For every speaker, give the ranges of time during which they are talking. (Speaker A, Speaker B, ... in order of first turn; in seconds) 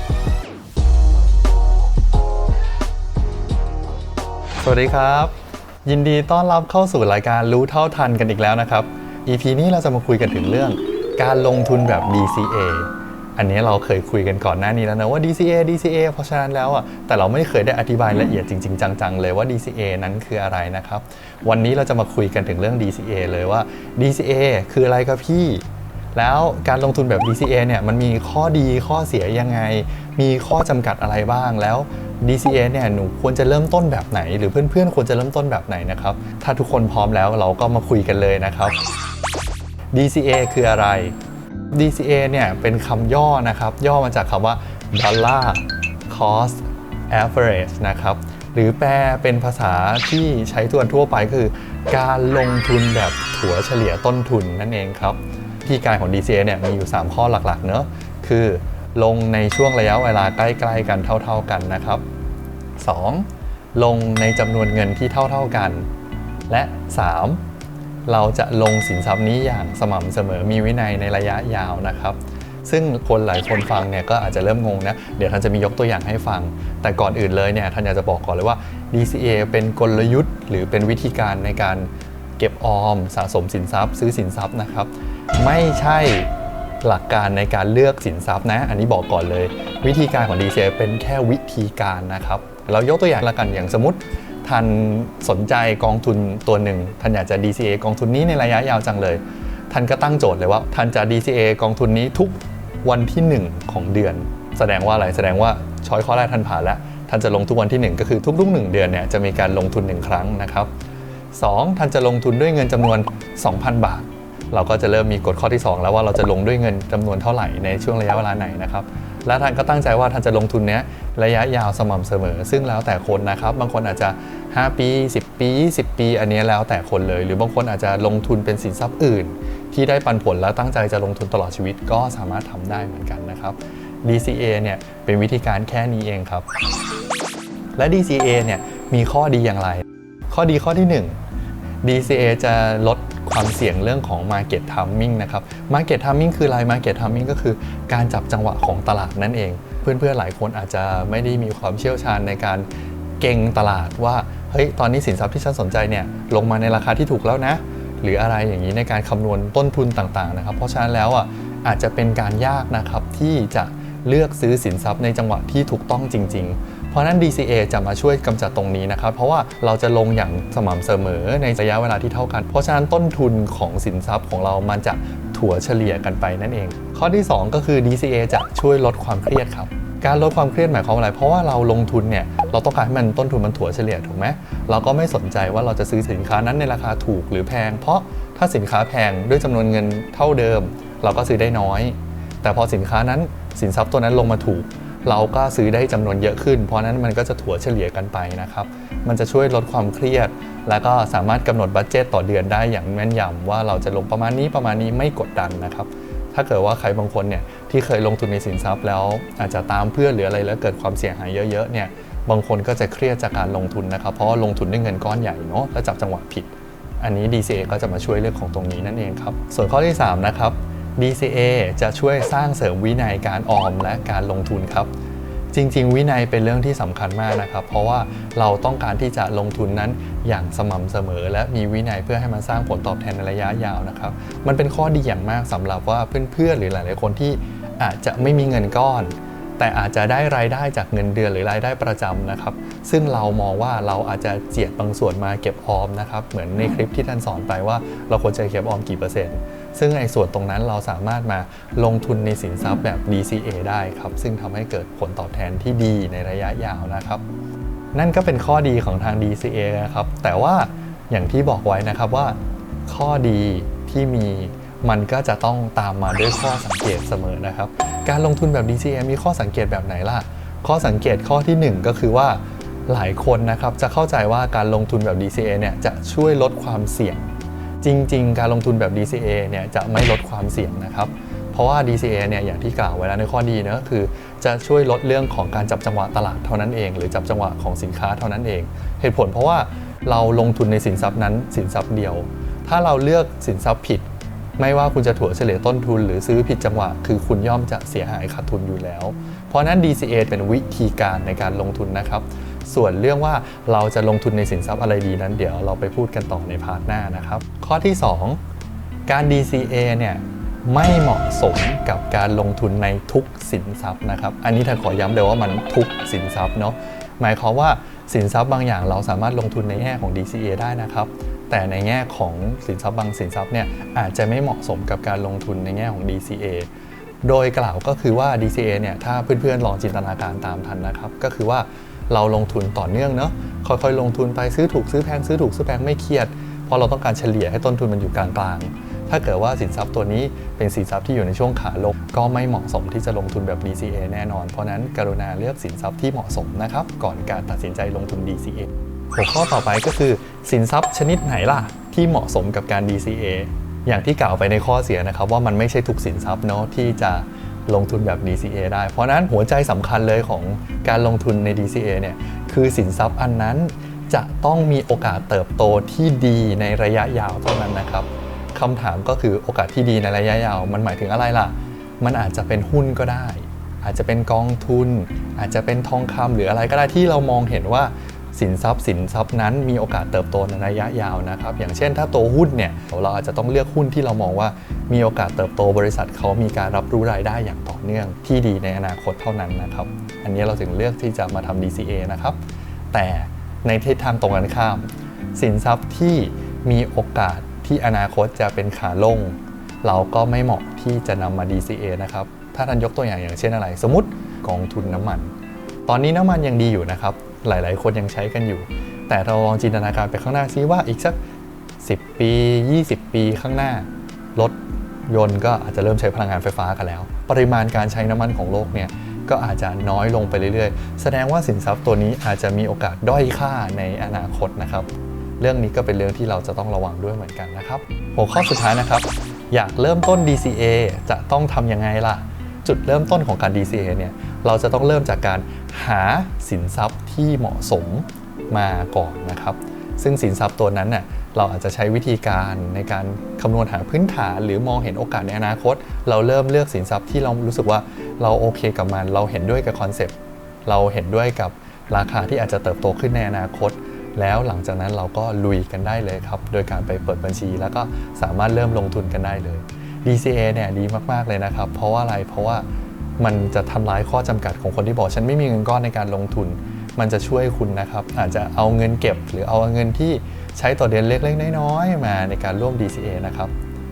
Speaker A: 4.6-5.3, 5.8-25.6, 26.1-38.8, 39.9-41.1, 41.7-62.0, 62.8-65.8, 66.5-67.4, 68.0-86.3, 86.8-110.7, 111.3-136.5, 137.8-141.2, 141.8-152.7, 153.2-224.9, 225.5-257.2, 257.9-277.3, 277.8-308.4, 309.1-326.7, 327.2-392.4, 392.9-405.3, 405.9-411.2, 411.8-424.9, 425.4-462.6, 463.2-473.5